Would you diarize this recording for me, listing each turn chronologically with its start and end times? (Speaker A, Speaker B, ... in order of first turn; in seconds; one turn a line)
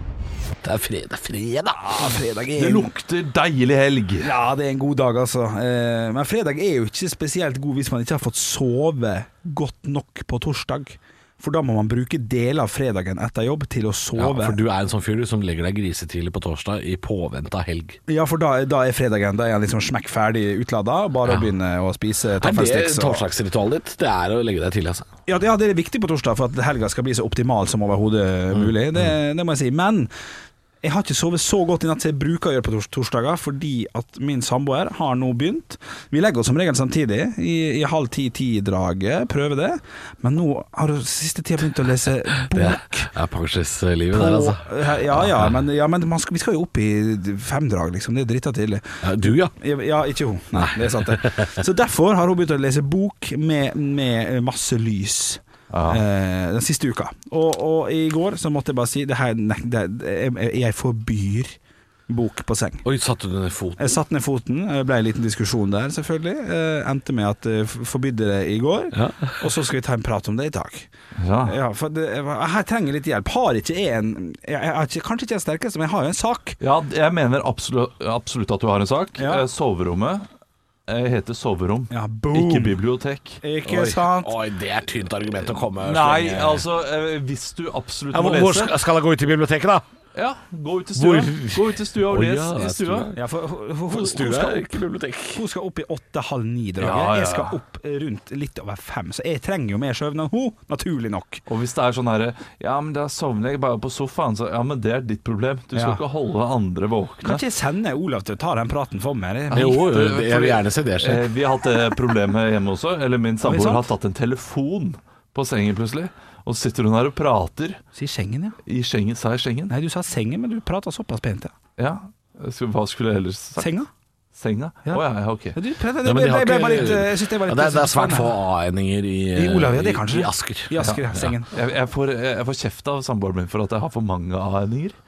Speaker A: 0.6-2.1
Speaker B: 1.8-2.9
Speaker C: 2.6-4.3
Speaker B: 4.2-14.6
Speaker A: 14.2-18.0
Speaker B: 18.1-23.2
Speaker A: 22.4-25.1
Speaker B: 25.3-30.1
Speaker B: 30.8-43.1
Speaker A: 42.5-45.5
Speaker B: 44.1-61.5
Speaker A: 49.0-49.5
Speaker A: 50.5-51.6
Speaker C: 55.7-56.0
Speaker B: 62.1-62.8
Speaker A: 62.8-64.0
Speaker B: 63.8-70.9
Speaker A: 68.9-69.5
Speaker C: 71.2-71.5
Speaker B: 71.4-76.6
Speaker C: 76.6-80.3
Speaker B: 79.2-79.5
Speaker C: 80.9-83.4
Speaker B: 81.9-82.8
Speaker B: 83.4-84.3
Speaker A: 83.6-86.6
Speaker C: 85.8-88.8
Speaker A: 88.1-89.8
Speaker C: 90.1-93.1
Speaker A: 91.0-93.2
Speaker B: 93.1-94.8
Speaker A: 93.9-95.4
Speaker B: 95.3-101.4
Speaker C: 96.8-97.5
Speaker C: 101.5-107.4
Speaker B: 105.7-106.0
Speaker B: 107.2-109.8
Speaker A: 109.5-111.2
Speaker C: 109.5-117.8
Speaker B: 113.4-113.9
Speaker B: 117.9-118.6
Speaker C: 118.7-119.7
Speaker B: 119.7-121.5
Speaker C: 121.8-123.7
Speaker B: 123.6-123.9
Speaker C: 124.3-125.5
Speaker B: 124.8-128.3
Speaker A: 126.0-131.3
Speaker B: 129.3-131.5
Speaker C: 131.5-135.0